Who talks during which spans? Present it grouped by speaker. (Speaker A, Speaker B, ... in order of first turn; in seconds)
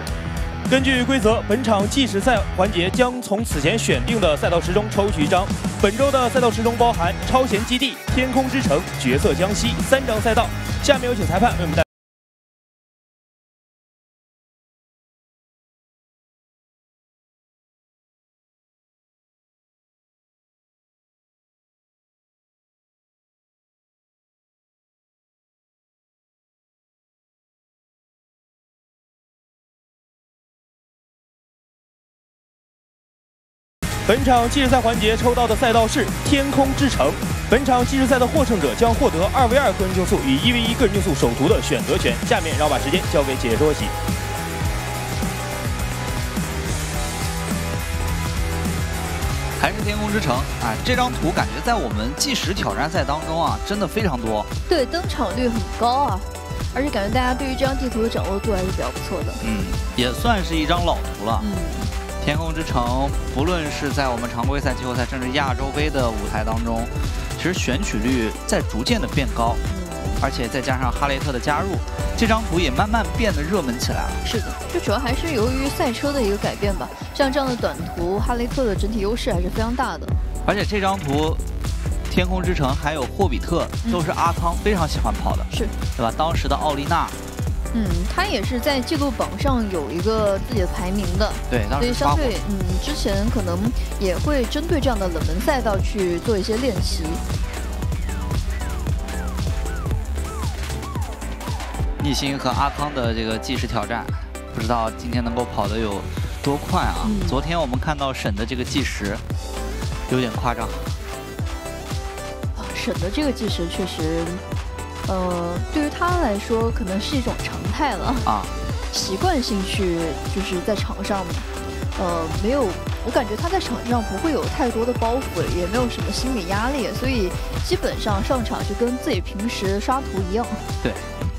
Speaker A: 0.7-11.8, 34.0-43.9
Speaker B: 49.6-54.5, 59.4-61.5, 62.2-69.6, 70.2-74.2, 80.4-81.4, 82.1-87.2, 91.5-92.3, 102.0-109.2, 110.1-111.0, 118.2-118.5, 130.8-131.2
Speaker C: 54.6-59.4, 61.4-61.9, 69.7-70.2, 74.2-80.1, 85.5-85.7, 87.7-97.2, 107.0-107.4, 112.5-114.4, 115.0-118.3, 118.9-130.6